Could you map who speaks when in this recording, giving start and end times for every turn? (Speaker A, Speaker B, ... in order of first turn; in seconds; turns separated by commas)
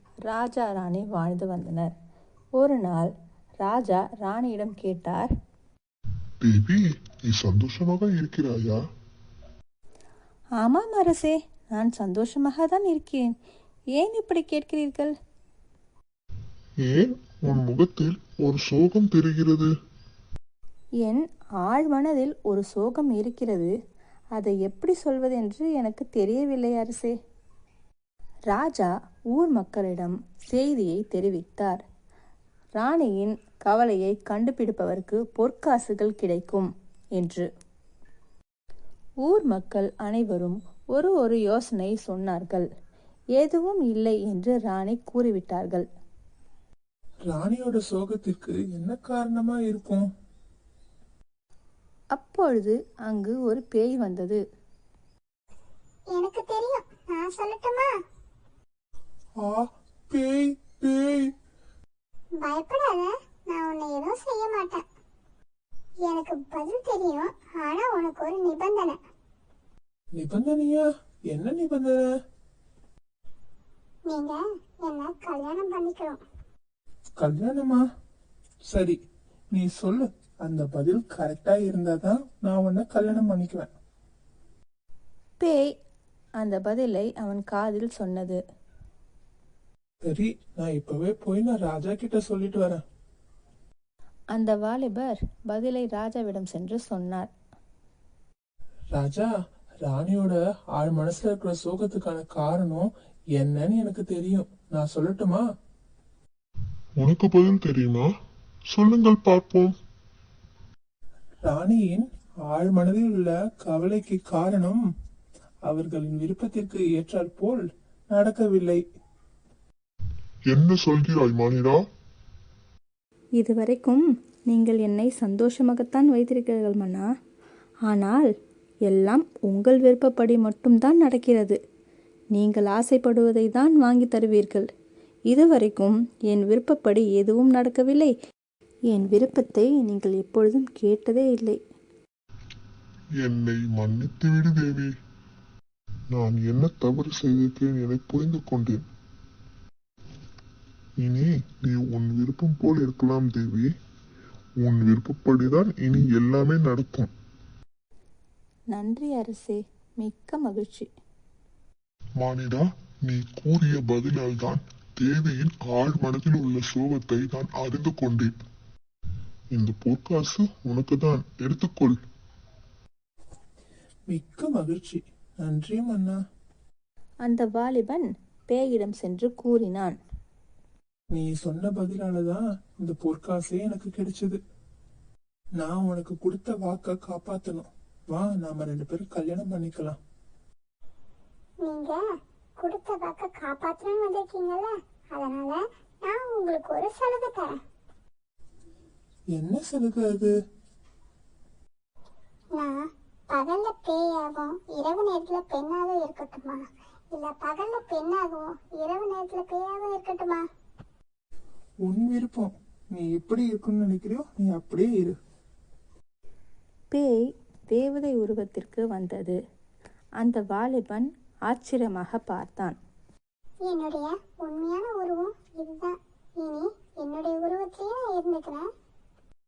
Speaker A: 0.3-1.9, Speaker A: 2.6-3.1, Speaker A: 3.6-5.3, Speaker B: 6.4-8.8, Speaker A: 10.6-13.3, Speaker A: 13.9-15.1, Speaker B: 16.8-19.7, Speaker A: 21.0-23.7, Speaker A: 24.4-27.1, Speaker A: 28.5-31.8, Speaker A: 32.8-37.5, Speaker A: 39.2-42.7, Speaker A: 43.4-45.9, Speaker C: 47.3-50.0, Speaker A: 52.1-54.4, Speaker D: 56.1-57.9, Speaker C: 59.4-61.3, Speaker D: 62.4-64.8, Speaker D: 66.0-69.0, Speaker C: 70.2-72.0, Speaker D: 74.1-76.2, Speaker C: 77.2-77.8, Speaker C: 78.7-79.0, Speaker C: 79.5-83.7, Speaker A: 86.4-88.4, Speaker C: 90.0-92.8, Speaker A: 94.3-97.3, Speaker C: 98.9-99.3, Speaker C: 99.8-105.4, Speaker B: 107.0-108.1, Speaker B: 108.7-109.7, Speaker C: 111.5-114.8, Speaker C: 115.7-118.8, Speaker B: 120.5-121.8, Speaker A: 123.4-127.0, Speaker A: 127.9-128.3, Speaker A: 128.8-131.6, Speaker A: 132.3-134.7, Speaker A: 135.3-138.1, Speaker A: 138.9-141.6, Speaker B: 143.2-144.9, Speaker B: 146.1-148.8, Speaker B: 151.0-153.7, Speaker B: 154.6-157.1, Speaker A: 158.7-160.9, Speaker B: 162.2-168.3, Speaker B: 169.5-172.0, Speaker C: 174.1-176.2, Speaker A: 177.2-179.9, Speaker C: 181.1-184.4, Speaker C: 185.6-190.0, Speaker D: 191.6-192.0, Speaker D: 192.6-197.6, Speaker C: 199.4-200.3, Speaker D: 203.3-210.4, Speaker C: 211.8-215.2, Speaker A: 216.9-217.2, Speaker A: 217.7-219.4, Speaker A: 220.2-222.8, Speaker D: 223.6-228.7